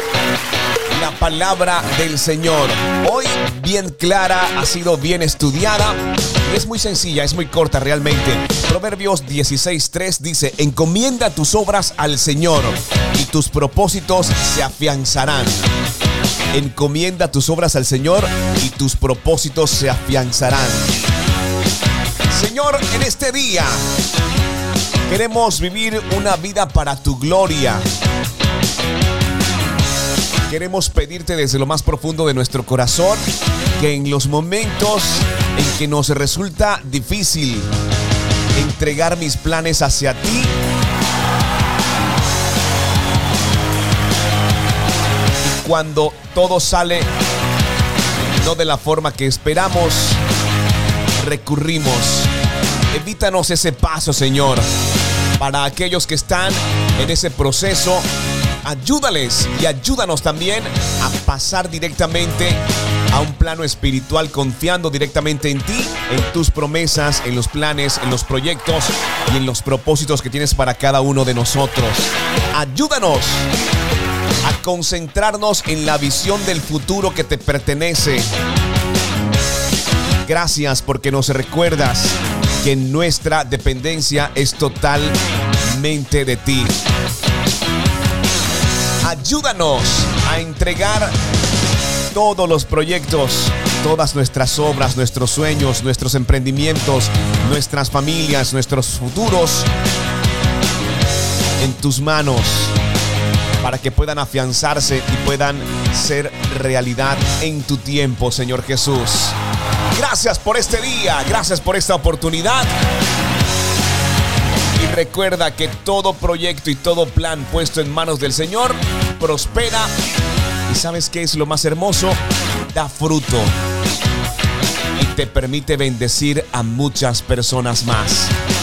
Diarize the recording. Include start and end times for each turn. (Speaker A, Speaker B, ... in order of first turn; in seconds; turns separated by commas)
Speaker A: 0.9-15.6, Speaker A: 16.5-20.9, Speaker A: 22.3-23.8, Speaker A: 25.1-27.8, Speaker A: 30.5-33.2, Speaker A: 33.8-37.7, Speaker A: 38.5-40.5, Speaker A: 45.4-47.1, Speaker A: 48.4-50.2, Speaker A: 51.2-52.3, Speaker A: 52.9-54.7, Speaker A: 55.4-58.0, Speaker A: 58.6-73.4, Speaker A: 74.4-78.3, Speaker A: 80.2-85.2, Speaker A: 85.7-86.7, Speaker A: 89.0-91.1, Speaker A: 92.1-99.7, Speaker A: 101.6-102.8, Speaker A: 103.6-109.4, Speaker A: 109.9-112.7, Speaker A: 114.8-119.9, Speaker A: 120.7-122.2, Speaker A: 122.7-123.5, Speaker A: 125.0-128.3